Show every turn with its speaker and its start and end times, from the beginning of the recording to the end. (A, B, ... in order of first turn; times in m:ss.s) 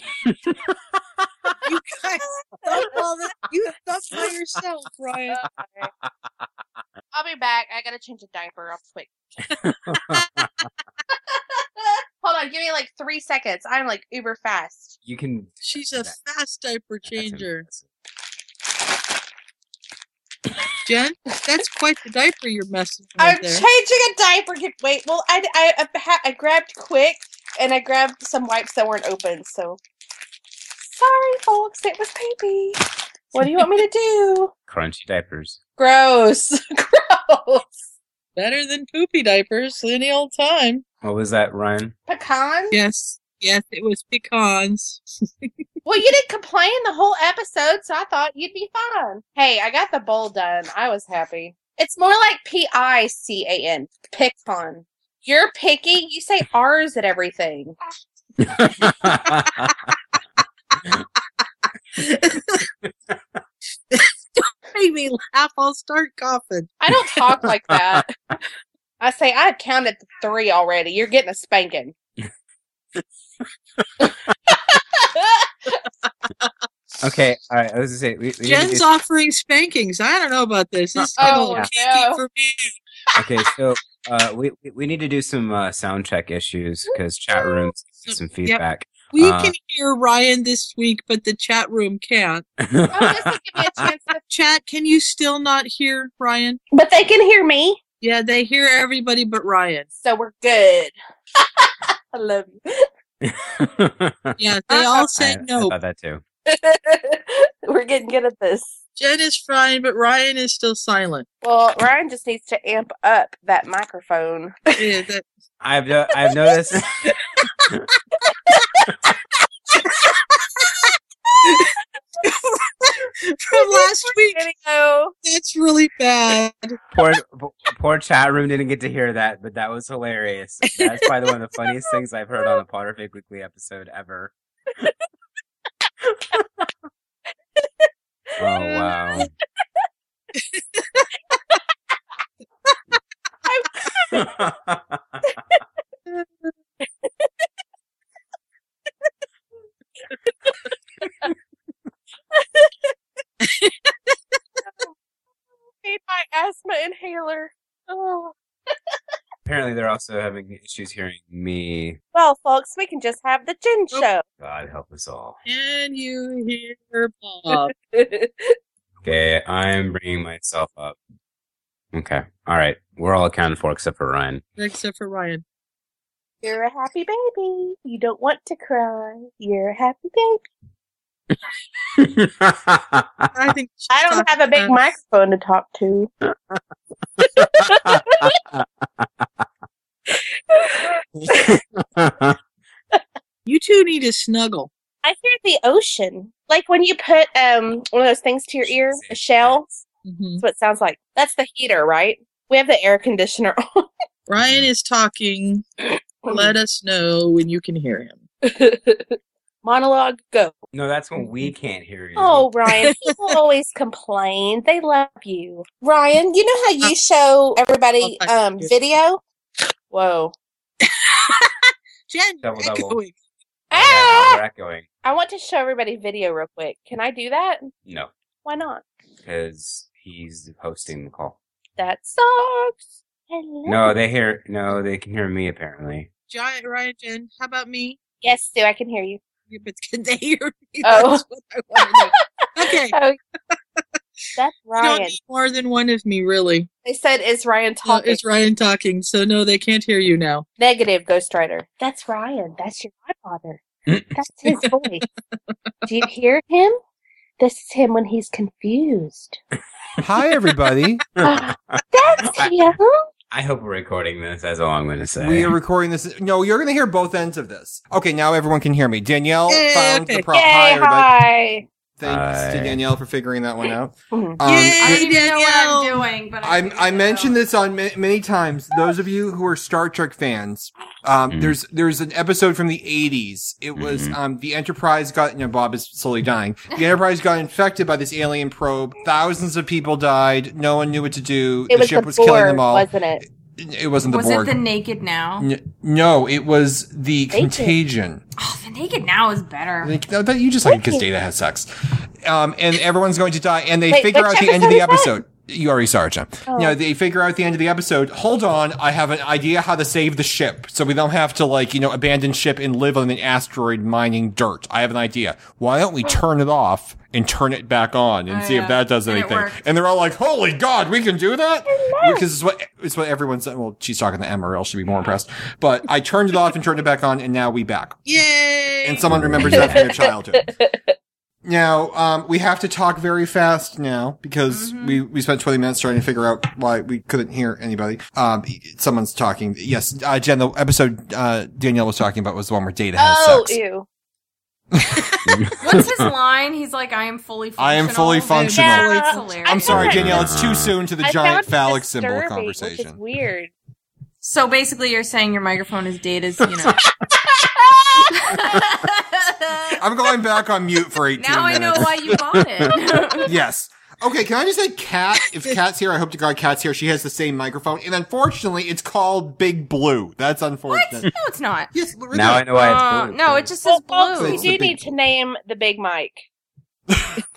0:00.3-0:00.6 A
0:01.6-0:05.4 B
0:02.6-0:03.0 C
0:05.3-0:05.9 C
0:07.1-0:09.5 C
0:09.5-0:10.7 A
0:11.1-0:15.0 C
0:15.0-0:16.2 A
0:15.6-0:17.6 B
0:17.0-0:17.9 A
0:20.8-0:23.6 B
0:23.2-0:29.8 C
0:30.8-0:34.5 C
0:34.7-0:35.6 A
0:35.8-0:37.8 C
0:38.4-0:40.8 B
0:41.0-0:41.9 A
0:42.1-0:42.8 C
0:42.7-0:45.5 B
0:45.8-0:57.8 C
0:58.4-0:59.9 A
0:58.8-0:59.7 B
1:02.0-1:02.7 B
1:02.8-1:03.4 A
1:03.9-1:06.8 B
1:06.8-1:08.1 C
1:09.0-1:11.9 C
1:14.0-1:15.8 C
1:17.0-1:18.9 A
1:18.4-1:22.8 B
1:21.2-1:22.2 C
1:21.2-1:21.7 A
1:23.1-1:29.5 A
1:28.1-1:32.5 B
1:32.6-1:33.9 A
1:32.9-1:34.2 C
1:34.3-1:36.6 B
1:36.7-1:37.8 C
1:38.0-1:39.9 B
1:40.0-1:42.9 C
1:43.2-1:44.4 A
1:44.4-1:45.7 B
1:44.7-1:45.1 C
1:45.2-1:46.2 A
1:46.5-1:48.8 C
1:49.0-1:51.3 B
1:51.4-1:54.9 C
1:54.8-1:55.2 B
1:55.6-1:56.9 A
1:58.5-1:58.7 C
1:59.9-2:00.8 B
2:01.4-2:04.5 B
2:03.5-2:05.1 C
2:05.2-2:06.8 B
2:06.9-2:14.3 A
2:10.7-2:11.1 B
2:18.4-2:19.3 A
2:20.4-2:21.1 B
2:23.4-2:24.3 C
2:24.1-2:25.3 A
2:26.1-2:26.5 B
2:26.8-2:27.3 C
2:32.3-2:32.9 C
2:33.4-2:34.2 B
2:35.8-2:38.3 C
2:39.4-2:42.0 A
2:42.1-2:44.2 C
2:44.4-2:45.4 A
2:45.4-2:47.7 B
2:47.8-2:48.5 C
2:49.0-2:51.0 A
2:51.9-2:54.4 A
2:54.6-2:55.4 B
2:56.4-3:00.4 C
3:02.0-3:03.3 A
3:03.3-3:04.8 B
3:03.9-3:06.1 C
3:07.4-3:08.4 C
3:07.4-3:09.4 A
3:10.5-3:11.4 C
3:11.2-3:12.4 A
3:13.4-3:14.7 B
3:15.0-3:19.8 C
3:18.6-3:19.6 A
3:20.0-3:20.4 B
3:20.4-3:23.9 C
3:24.3-3:25.6 B
3:24.4-3:24.7 A
3:26.2-3:28.2 B
3:28.4-3:30.6 C
3:30.7-3:32.5 A
3:32.2-3:39.2 C
3:32.7-3:33.2 B
3:38.0-3:38.7 B
3:39.9-3:40.3 C
3:40.8-3:43.2 B
3:42.4-3:43.0 A
3:43.7-3:44.4 C
3:43.7-3:44.8 A
3:45.0-3:47.7 C
3:48.4-3:48.8 C
3:49.2-3:51.4 A
3:51.8-3:53.9 C
3:53.6-3:56.1 A
3:56.3-3:58.0 B
3:58.2-3:59.2 C
3:59.5-4:03.0 B
4:00.8-4:01.2 C
4:01.8-4:03.2 C
4:04.3-4:06.7 B
4:04.4-4:05.2 C
4:06.8-4:08.2 C
4:07.8-4:10.4 B
4:10.6-4:13.6 C
4:13.9-4:14.1 A
4:14.1-4:15.0 C
4:14.6-4:15.1 B
4:15.8-4:16.8 C
4:17.4-4:19.4 C
4:20.0-4:21.0 D
4:21.2-4:22.7 A
4:21.2-4:23.0 C
4:23.3-4:25.5 A
4:25.2-4:31.1 D
4:29.5-4:30.3 B
4:30.3-4:31.6 C
4:32.0-4:35.1 D
4:32.0-4:32.8 A
4:34.1-4:34.4 C
4:34.4-4:36.0 B
4:34.8-4:37.4 E
4:36.4-4:54.6 D
4:41.3-4:41.6 A
4:43.8-4:44.2 A
4:51.7-4:53.2 C
4:54.1-4:55.5 E
4:55.4-4:58.2 D
4:57.3-4:57.7 C
4:58.4-4:59.9 E
4:59.8-5:01.7 D
5:00.6-5:01.0 C
5:02.2-5:28.0 D
5:03.9-5:05.1 C
5:06.5-5:06.8 C
5:18.3-5:19.6 E
5:21.7-5:22.2 C
5:28.0-5:29.1 B
5:28.8-5:30.4 D
5:29.1-5:29.6 A
5:29.5-5:29.9 C
5:31.4-5:43.6 D
5:34.5-5:35.0 E
5:43.0-5:43.9 C
5:44.7-5:45.4 D
5:45.2-5:46.1 A
5:45.6-5:50.3 E
5:47.6-5:53.0 D
5:48.3-5:49.4 B
5:48.5-5:49.1 C
5:49.7-5:50.7 A
5:51.0-5:53.5 C
5:54.2-5:56.9 E
5:58.2-5:59.8 E
5:59.7-6:02.2 D
6:01.2-6:03.3 E
6:03.2-6:11.1 D
6:10.7-6:11.7 E
6:11.7-6:12.5 D
6:12.1-6:13.5 A
6:12.5-6:14.5 E
6:13.7-6:16.2 C
6:14.2-6:14.9 D
6:16.9-6:17.2 D